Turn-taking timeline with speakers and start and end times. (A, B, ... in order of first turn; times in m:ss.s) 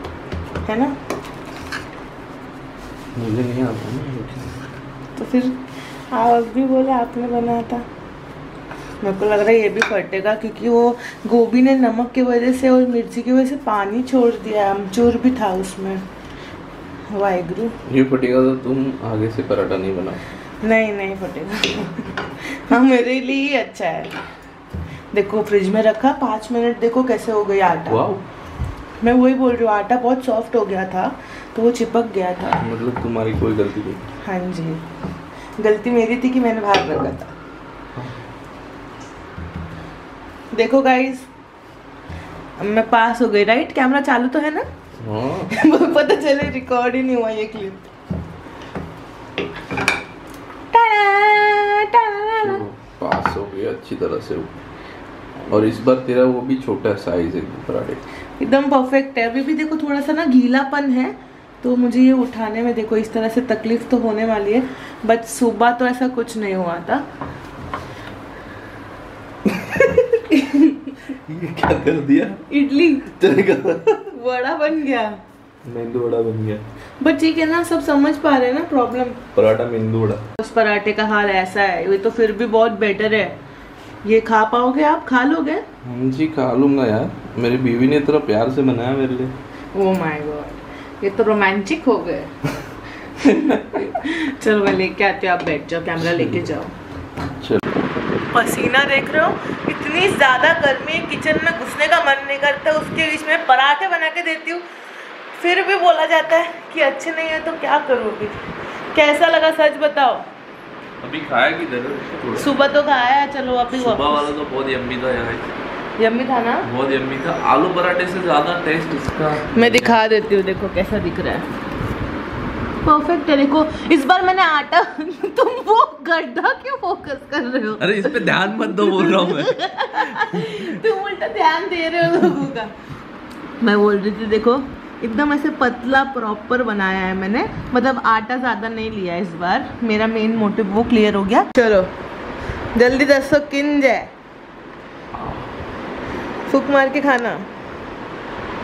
0:00.6-0:01.0 A
0:03.2-0:04.6 B
0:05.2-0:07.9 A
0:09.0-0:16.0 A
0:17.1-0:17.8 A
0:17.9-0:20.2 B
0:20.6-0:24.1 A
0:25.1-0:28.0 A
0:27.9-0:28.2 B
0:29.0-0:32.6 A
0:32.6-0:34.0 B
0:34.2-0:34.8 A
0:35.6-0:37.4 A
0:40.5-0:41.3 A
0:42.6-0:44.7 A
0:45.0-0:45.5 B
0:45.5-0:47.8 A
0:50.7-0:52.6 A
0:52.4-0:54.5 B
0:55.5-0:58.0 B
0:58.4-1:07.0 A
1:09.6-1:10.2 B
1:10.3-1:11.0 A
1:11.3-1:12.4 B
1:12.5-1:13.2 A
1:13.2-1:14.0 B
1:14.1-1:15.2 A
1:15.7-1:16.6 B
1:17.0-1:19.2 A
1:19.4-1:20.2 B
1:20.4-1:23.4 A
1:24.0-1:25.6 A
1:25.8-1:29.3 B
1:29.8-1:32.3 A
1:33.2-1:36.7 A
1:36.0-1:36.4 B
1:38.3-1:44.6 A
1:45.3-1:50.3 A
1:51.0-1:52.5 B
1:52.4-1:54.3 A
1:53.7-1:55.4 B
1:56.0-1:56.7 A
1:56.7-2:00.0 B
1:59.5-2:01.5 A
2:02.8-2:12.8 A
2:07.8-2:09.6 B
2:10.1-2:10.6 B
2:13.6-2:21.9 A
2:22.8-2:24.1 A
2:26.5-2:27.5 A